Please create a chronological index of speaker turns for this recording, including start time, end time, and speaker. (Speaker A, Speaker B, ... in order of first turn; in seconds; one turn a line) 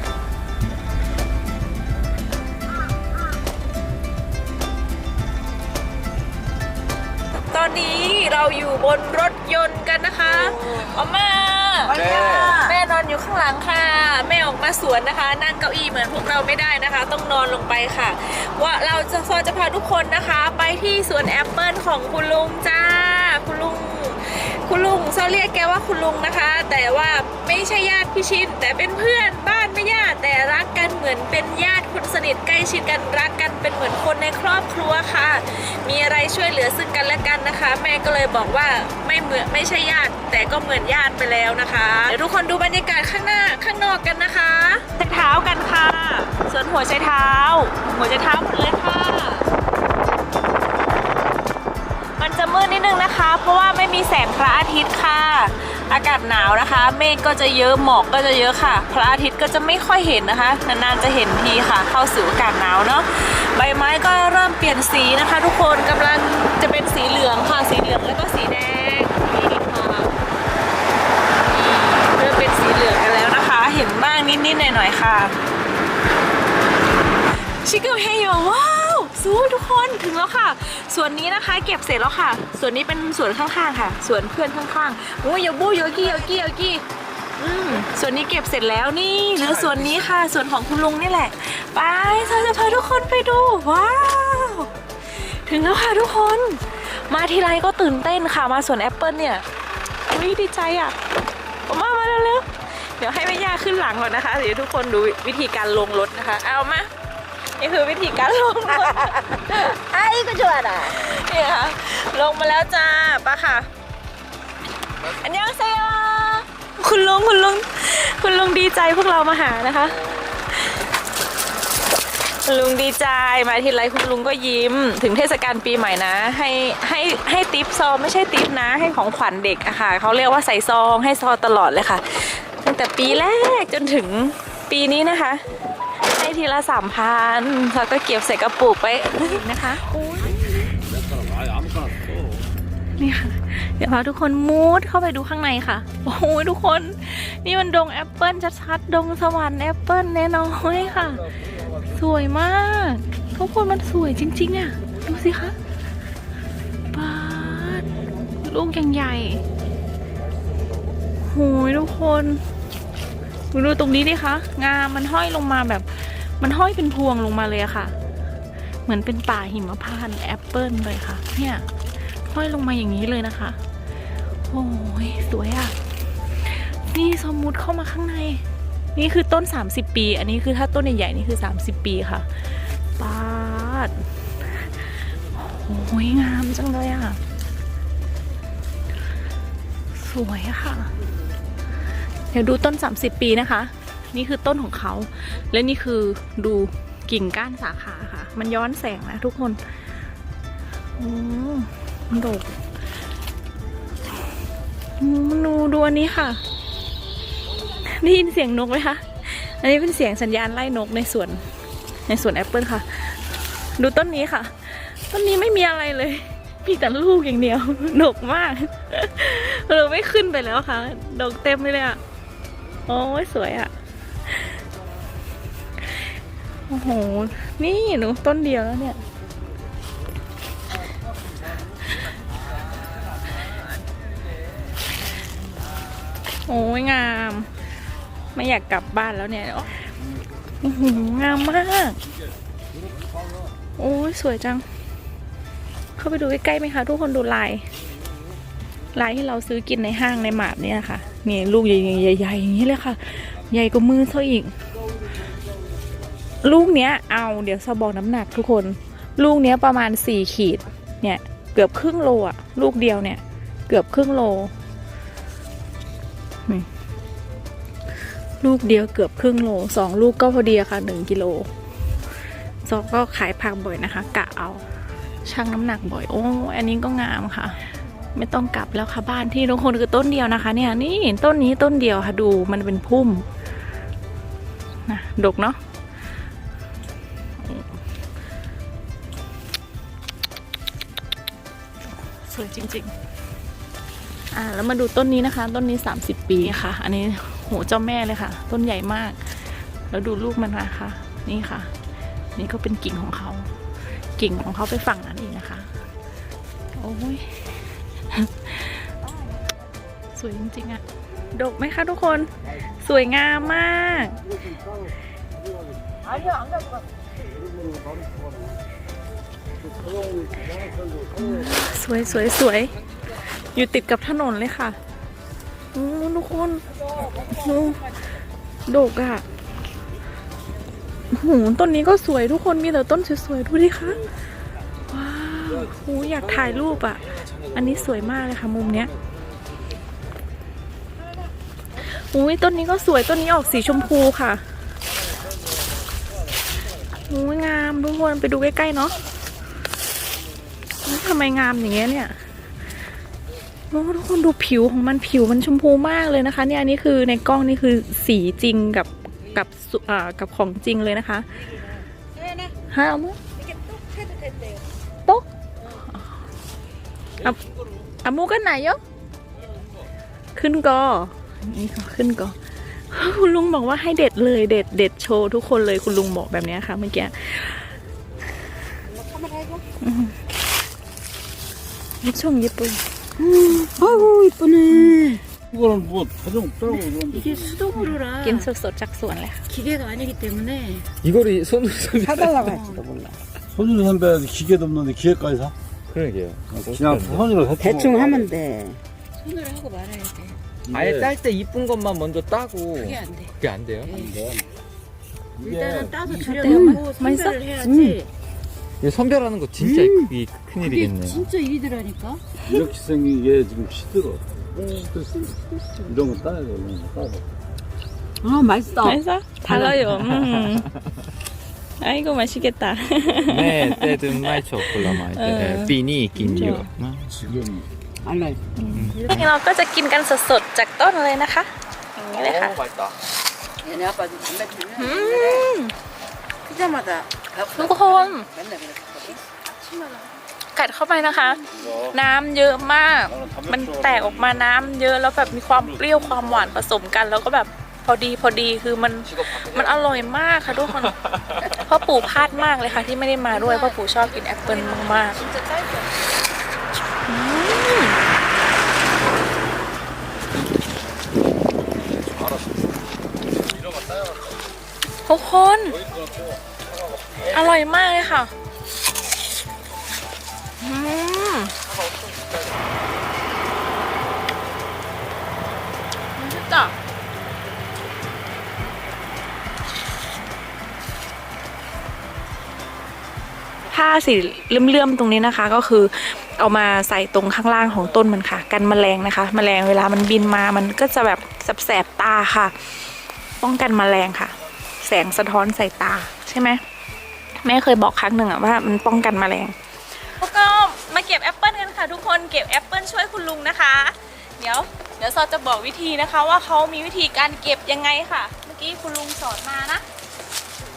Speaker A: 7.5-49.5
Speaker B: 11.9-12.8
Speaker C: 11.9-12.6
Speaker A: 52.2-70.2
Speaker A: 71.5-75.3
Speaker A: 77.5-86.8
Speaker A: 87.4-99.5
Speaker A: 100.1-101.0
Speaker A: 101.7-106.9
Speaker A: 107.6-109.8
Speaker B: 108.8-111.1
Speaker A: 110.8-113.7
Speaker A: 115.0-120.8
Speaker A: 122.5-135.5
Speaker A: 136.0-140.4
Speaker D: 141.2-142.2
Speaker A: 142.9-151.3
Speaker A: 151.8-155.6
Speaker A: 156.9-157.9
Speaker A: 158.4-159.4
Speaker A: 161.2-162.4
Speaker A: 163.5-167.9
Speaker A: 168.9-171.7
Speaker A: 172.2-173.6
Speaker A: 174.4-175.8
Speaker A: 176.4-178.4
Speaker A: 178.9-182.3
Speaker A: 183.0-184.0
Speaker A: 184.8-187.2
Speaker A: 189.9-190.9
Speaker A: 192.3-199.6
Speaker A: 201.0-202.6
Speaker A: 205.0-206.4
Speaker A: 207.7-211.5
Speaker A: 212.1-213.2
Speaker A: 213.8-222.0
Speaker A: 222.9-223.7
Speaker A: 226.7-229.0
Speaker A: 236.5-237.5
Speaker A: 238.3-239.9
Speaker A: 240.6-242.0
Speaker A: 243.8-244.7
Speaker A: 246.0-247.7
Speaker A: 248.9-254.6
Speaker A: 256.4-264.5
Speaker A: 268.4-271.5
Speaker A: 272.6-274.7
Speaker A: 275.2-283.3
Speaker A: 284.9-285.6
Speaker A: 287.4-287.7
Speaker A: 292.2-292.9
Speaker A: 294.3-301.7
Speaker A: 302.4-303.5
Speaker A: 304.2-305.7
Speaker A: 306.8-308.9
Speaker A: 310.2-310.8
Speaker A: 311.3-312.3
Speaker A: 312.8-314.2
Speaker B: 316.2-316.7
Speaker D: 317.7-318.2
Speaker D: 319.8-320.9
Speaker A: 321.1-322.8
Speaker A: 323.5-324.8
Speaker A: 325.7-326.7
Speaker A: 327.2-327.9
Speaker A: 328.7-329.2
Speaker A: 331.1-334.0
Speaker A: 334.9-338.9
Speaker A: 341.8-344.4
Speaker A: 347.1-349.0
Speaker A: 350.8-352.2
Speaker A: 353.7-361.3
Speaker B: 362.1-362.5
Speaker A: 362.7-363.2
Speaker B: 363.4-364.6
Speaker A: 365.1-366.1
Speaker A: 368.0-368.8
Speaker A: 370.4-372.4
Speaker A: 372.9-377.7
Speaker B: 378.9-379.6
Speaker A: 379.8-380.2
Speaker A: 382.0-382.8
Speaker B: 383.2-385.2
Speaker D: 385.5-387.8
Speaker B: 387.1-388.5
Speaker A: 388.1-389.4
Speaker B: 389.5-390.9
Speaker C: 391.0-392.6
Speaker B: 392.0-393.2
Speaker D: 393.5-395.5
Speaker C: 395.9-397.3
Speaker D: 396.6-398.3
Speaker B: 397.6-400.4
Speaker D: 400.7-401.1
Speaker C: 400.7-404.0
Speaker B: 402.8-404.1
Speaker D: 403.9-404.5
Speaker D: 405.4-406.5
Speaker C: 405.4-405.9
Speaker B: 405.7-408.1
Speaker A: 406.2-407.4
Speaker C: 408.8-411.3
Speaker B: 409.6-412.2
Speaker D: 412.5-415.3
Speaker B: 414.6-414.9
Speaker B: 415.6-416.1
Speaker D: 415.9-417.2
Speaker B: 418.2-419.8
Speaker A: 418.8-420.7
Speaker C: 419.7-420.4
Speaker A: 421.8-426.7
Speaker C: 423.3-427.3
Speaker D: 427.2-427.7
Speaker B: 428.0-428.4
Speaker A: 428.6-432.6
Speaker C: 428.7-429.3
Speaker C: 432.2-432.9
Speaker B: 433.6-435.5
Speaker A: 434.8-435.7
Speaker B: 436.4-440.2
Speaker A: 437.6-438.3
Speaker A: 440.6-455.2
Speaker D: 441.6-441.9
Speaker D: 443.1-444.6
Speaker D: 445.5-446.4
Speaker C: 449.1-450.1
Speaker B: 453.3-455.9
Speaker A: 457.1-458.0
Speaker D: 463.8-464.2
Speaker A: 465.1-465.8
Speaker D: 465.9-466.2
Speaker A: 467.2-468.3
Speaker A: 470.6-471.6
Speaker A: 476.2-476.8
Speaker A: 483.7-492.7
Speaker A: 493.4-496.6
Speaker A: 497.4-499.6
Speaker A: 500.1-509.9